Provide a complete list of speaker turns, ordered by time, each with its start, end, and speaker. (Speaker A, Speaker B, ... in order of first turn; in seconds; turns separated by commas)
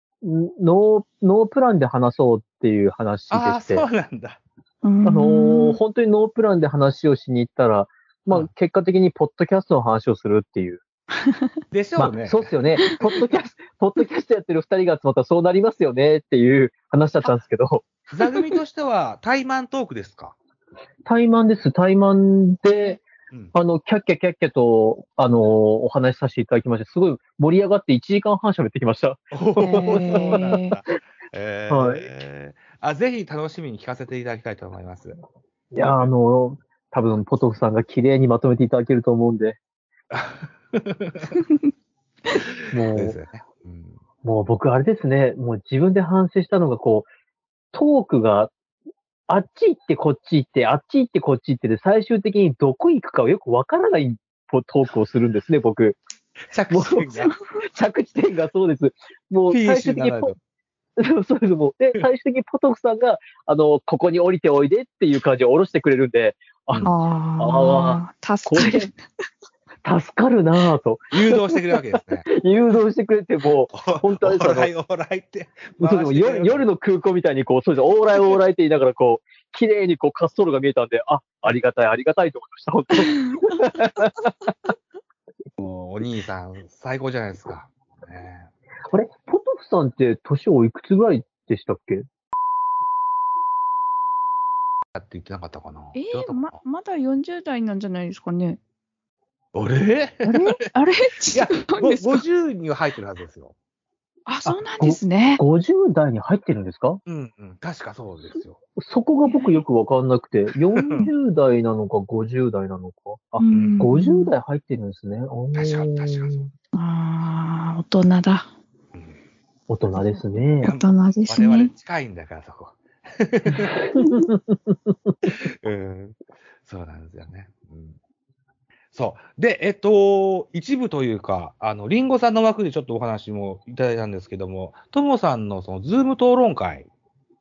Speaker A: 0.2-3.9, Speaker B: 3.3-4.4, Speaker C: 4.8-5.8, Speaker A: 5.0-10.8, Speaker C: 11.2-11.5, Speaker B: 11.7-12.5, Speaker A: 12.0-18.0, Speaker B: 18.1-20.3, Speaker A: 21.1-30.8, Speaker B: 29.3-35.2, Speaker C: 29.6-30.8, Speaker A: 31.7-32.1, Speaker A: 35.7-39.6, Speaker B: 35.8-36.1, Speaker B: 40.1-41.4, Speaker C: 41.4-41.6, Speaker A: 42.7-43.2, Speaker B: 42.9-44.0, Speaker A: 44.2-47.1, Speaker A: 47.7-48.5, Speaker A: 49.3-56.0, Speaker B: 56.5-57.3, Speaker A: 56.7-57.1, Speaker A: 57.7-60.3, Speaker B: 59.5-60.4, Speaker A: 61.0-68.9, Speaker C: 66.8-69.0, Speaker A: 69.8-74.7, Speaker B: 71.1-72.3, Speaker B: 73.7-76.7, Speaker A: 75.8-84.1, Speaker C: 83.0-83.8, Speaker B: 85.6-88.5, Speaker A: 88.9-92.1, Speaker B: 95.0-96.6, Speaker C: 96.0-98.6, Speaker B: 99.5-100.5, Speaker C: 100.2-102.2, Speaker B: 101.3-103.5, Speaker C: 104.3-105.4, Speaker A: 104.5-107.0, Speaker B: 107.1-108.6, Speaker A: 108.8-116.5, Speaker C: 109.2-109.7, Speaker C: 113.4-114.3, Speaker B: 113.5-113.9, Speaker B: 115.5-116.5, Speaker C: 116.8-118.5, Speaker A: 119.7-120.7, Speaker C: 120.0-121.7, Speaker B: 120.6-123.8, Speaker A: 123.7-125.2, Speaker C: 124.0-124.2, Speaker B: 125.3-128.0, Speaker B: 128.9-136.9